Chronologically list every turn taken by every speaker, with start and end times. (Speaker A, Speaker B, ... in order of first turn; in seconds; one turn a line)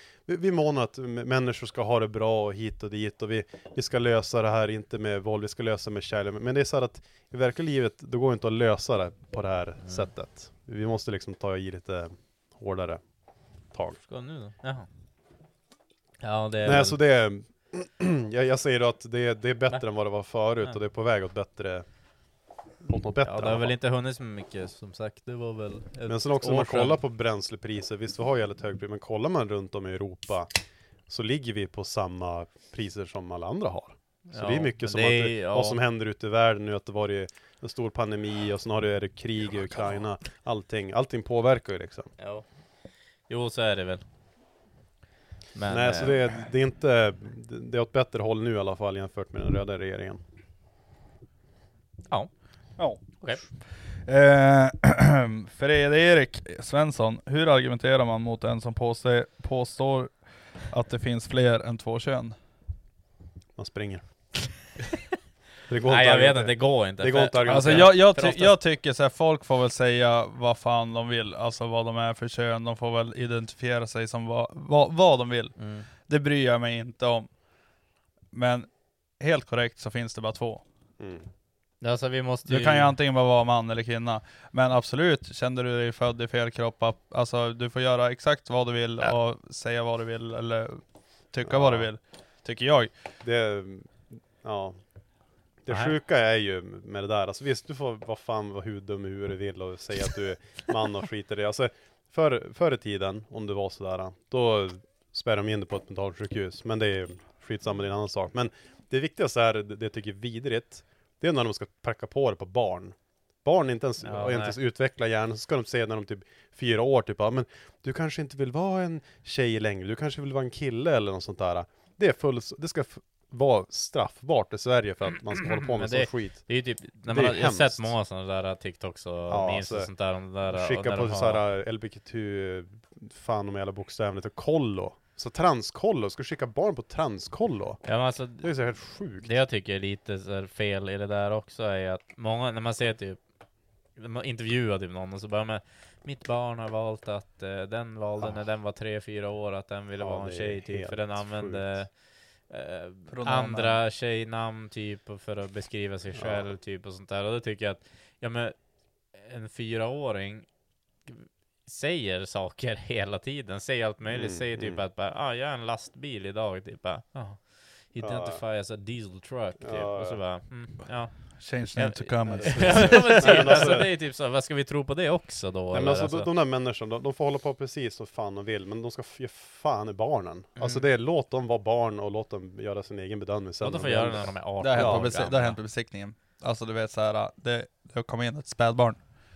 Speaker A: 0.3-13.0
Speaker B: 9.8-10.1
Speaker A: 13.7-14.0
Speaker B: 14.1-14.9
Speaker B: 16.2-17.0
Speaker A: 16.6-21.9
Speaker A: 22.8-23.8
Speaker B: 23.2-27.0
Speaker A: 26.1-30.5
Speaker A: 31.1-42.1
Speaker B: 34.3-35.8
Speaker B: 42.2-42.5
Speaker B: 43.3-44.0
Speaker B: 45.5-46.3
Speaker A: 45.7-50.2
Speaker C: 52.8-53.5
Speaker C: 54.0-60.1
Speaker C: 60.7-62.4
Speaker A: 63.6-64.0
Speaker A: 65.7-68.0
Speaker B: 65.9-68.6
Speaker C: 67.4-77.3
Speaker B: 75.6-75.9
Speaker C: 78.3-78.7
Speaker C: 79.2-80.6
Speaker A: 81.0-81.3
Speaker B: 81.8-83.0
Speaker C: 82.5-90.8
Speaker C: 91.3-92.9
Speaker A: 91.5-91.9
Speaker A: 93.2-94.8
Speaker A: 95.6-126.5
Speaker B: 95.7-96.0
Speaker B: 114.0-114.6
Speaker B: 125.4-131.4
Speaker A: 127.1-128.0
Speaker A: 129.3-129.9
Speaker A: 130.4-137.8
Speaker B: 137.8-138.5
Speaker A: 138.4-139.4
Speaker B: 139.2-143.2
Speaker B: 144.0-151.9
Speaker A: 150.0-151.9
Speaker B: 152.5-158.6
Speaker C: 153.1-153.8
Speaker A: 156.2-156.6
Speaker B: 159.1-160.5
Speaker B: 161.1-176.3
Speaker A: 164.1-164.8
Speaker A: 168.0-168.4
Speaker A: 169.6-170.2
Speaker C: 171.4-173.8
Speaker A: 172.3-173.9
Speaker A: 175.7-185.1
Speaker B: 180.6-180.9
Speaker B: 183.6-185.6
Speaker C: 184.6-189.0